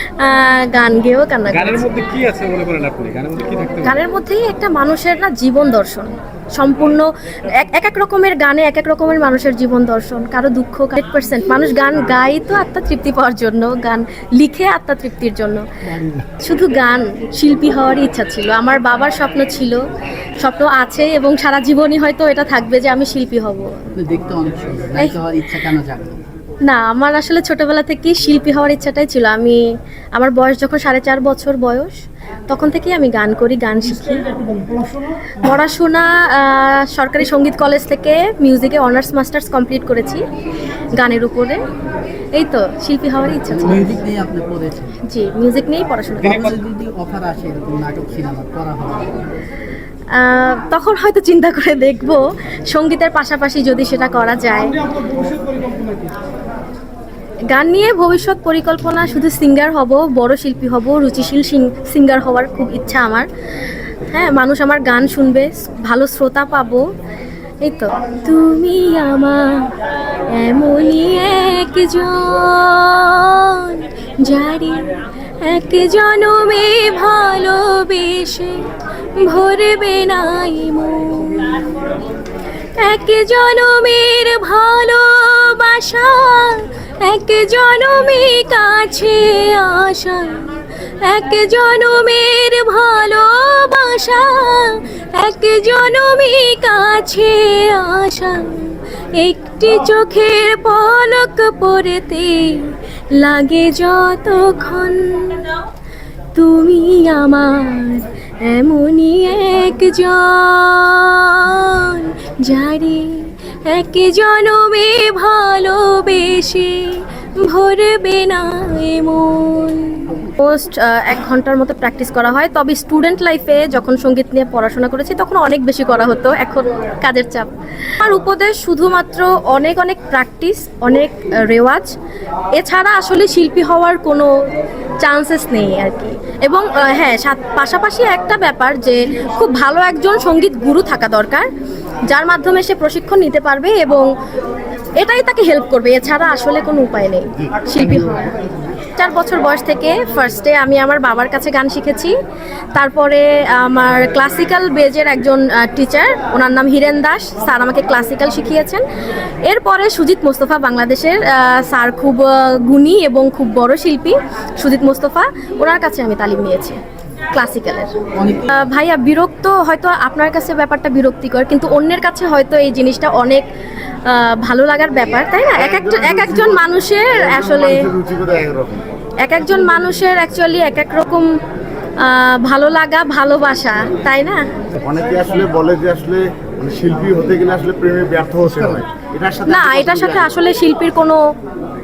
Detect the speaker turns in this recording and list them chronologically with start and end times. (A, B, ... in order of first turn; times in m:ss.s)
0:00.2-0:01.9 A
0:01.5-0:04.0 B
0:03.8-0:15.6 A
0:16.2-0:19.8 A
0:20.4-0:23.7 A
0:23.9-0:26.2 C
0:26.6-0:29.6 A
0:30.1-0:32.0 A
0:32.5-0:34.4 A
0:35.4-0:40.2 A
0:40.9-0:41.6 A
0:42.3-0:44.0 A
0:43.4-0:45.0 C
0:45.0-0:46.6 A
0:46.2-0:49.2 C
0:50.1-0:55.2 A
0:57.5-1:03.3 A
1:04.1-1:06.8 A
1:07.6-1:09.7 A
1:10.3-1:18.6 A
1:19.2-1:21.9 A
1:22.8-1:45.6 A
1:46.3-2:11.9 A
2:12.6-2:14.3 A
2:15.0-2:21.5 A
2:22.1-2:24.1 A
2:25.0-2:28.3 A
2:28.9-2:32.1 A
2:32.7-2:38.8 A
2:39.4-2:46.8 A
2:47.3-2:47.9 A
2:48.1-2:48.6 C
2:48.5-2:53.4 A
2:54.0-2:57.9 A
2:55.5-2:58.8 D
2:59.2-3:01.3 A
3:02.0-3:04.5 A
3:04.8-3:10.3 D
3:09.5-3:11.2 A